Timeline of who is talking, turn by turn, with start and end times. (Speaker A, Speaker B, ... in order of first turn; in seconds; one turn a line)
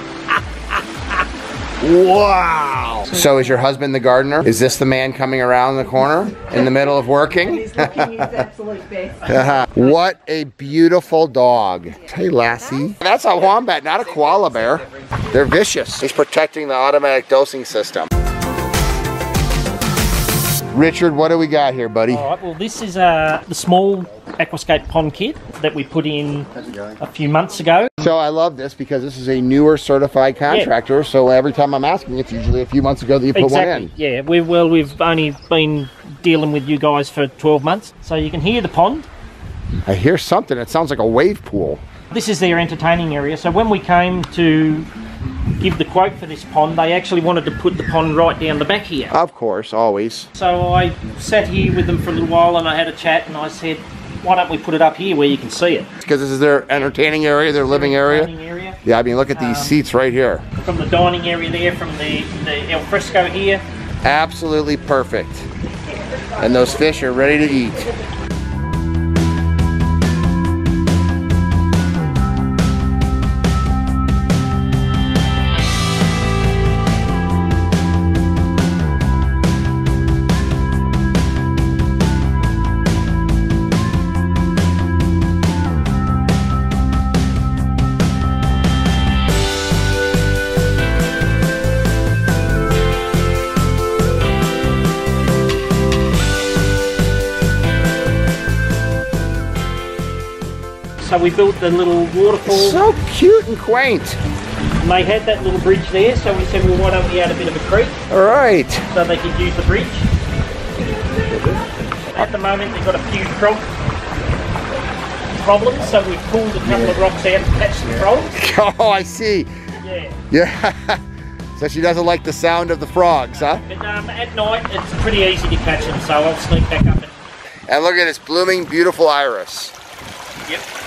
Speaker A: 1.8-8.4
Speaker B: 7.3-9.9
Speaker A: 9.3-18.1
Speaker A: 20.7-22.3
Speaker C: 22.1-26.5
Speaker C: 27.0-27.9
Speaker A: 28.0-33.9
Speaker C: 33.3-39.1
Speaker A: 39.9-41.8
Speaker C: 42.1-44.9
Speaker C: 45.6-49.1
Speaker A: 49.1-50.3
Speaker C: 50.3-55.9
Speaker A: 56.0-58.3
Speaker C: 57.6-58.8
Speaker A: 58.8-60.4
Speaker C: 59.3-59.8
Speaker C: 60.6-63.6
Speaker A: 64.0-65.5
Speaker A: 66.4-67.9
Speaker C: 101.0-102.8
Speaker A: 102.5-104.2
Speaker C: 104.8-108.0
Speaker A: 108.1-108.8
Speaker C: 108.9-110.0
Speaker C: 112.1-113.6
Speaker C: 115.3-118.3
Speaker A: 118.3-119.5
Speaker C: 119.8-120.1
Speaker A: 120.3-121.0
Speaker A: 121.5-123.6
Speaker C: 123.4-127.1
Speaker A: 127.7-129.7